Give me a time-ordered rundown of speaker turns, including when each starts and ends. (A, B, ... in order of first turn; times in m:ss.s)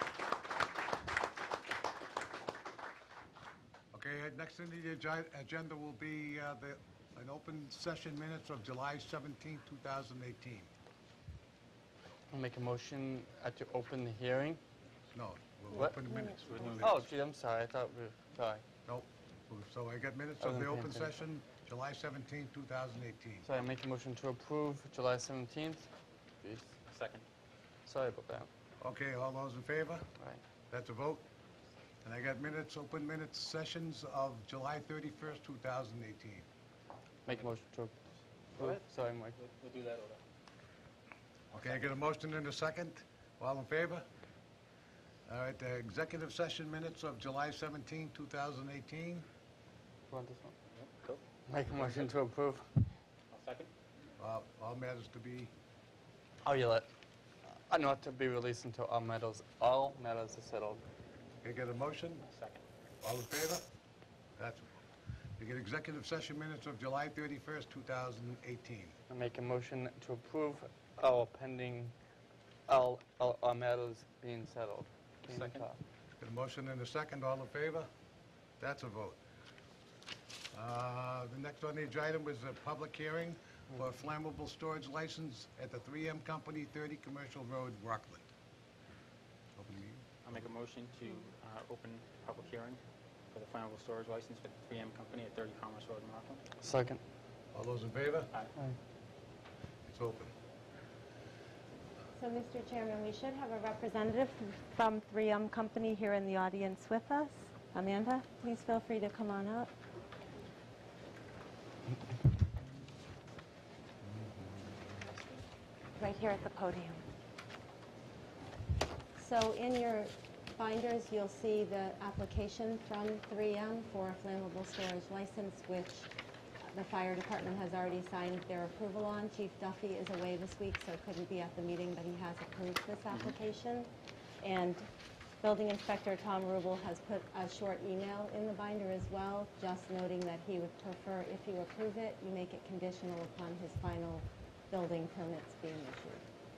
0:03.9-0:10.7 A
0:12.3-0:14.6 B
0:15.1-0:17.0 A
0:16.8-0:18.6 B
0:18.8-0:23.5 A
0:20.4-0:21.1 B
0:23.4-0:25.9 B
0:26.4-0:26.8 B
0:26.9-0:27.2 C
0:27.9-0:28.5 B
0:28.8-0:30.1 A
0:30.7-0:31.2 A
0:32.0-0:36.4 A
0:37.2-0:38.0 B
0:38.6-0:39.4 B
0:38.6-0:38.8 C
0:39.4-0:40.2 C
0:41.5-0:44.1 A
0:45.2-0:49.3 A
0:50.1-0:50.5 B
0:50.7-0:51.2 C
0:51.5-0:52.7 B
0:51.7-0:52.1 C
0:53.3-0:53.7 C
0:54.2-0:55.5 A
0:56.4-0:56.9 B
0:57.7-1:00.8 B
1:01.4-1:02.3 A
1:02.3-1:02.6 C
1:03.0-1:03.6 A
1:04.4-1:04.8 A
1:05.4-1:08.9 A
1:09.1-1:11.9 B
1:12.7-1:15.8 B
1:16.2-1:17.9 A
1:18.6-1:19.2 A
1:20.5-1:28.2 A
1:29.6-1:30.0 A
1:30.2-1:32.8 C
1:33.3-1:36.4 C
1:36.6-1:37.0 B
1:37.5-1:38.3 A
1:39.9-1:40.3 A
1:42.2-1:49.7 D
1:56.0-1:57.0 D
1:59.2-2:06.1 D
2:06.6-2:13.9 D
2:14.4-2:14.9 D
2:15.4-2:26.2 D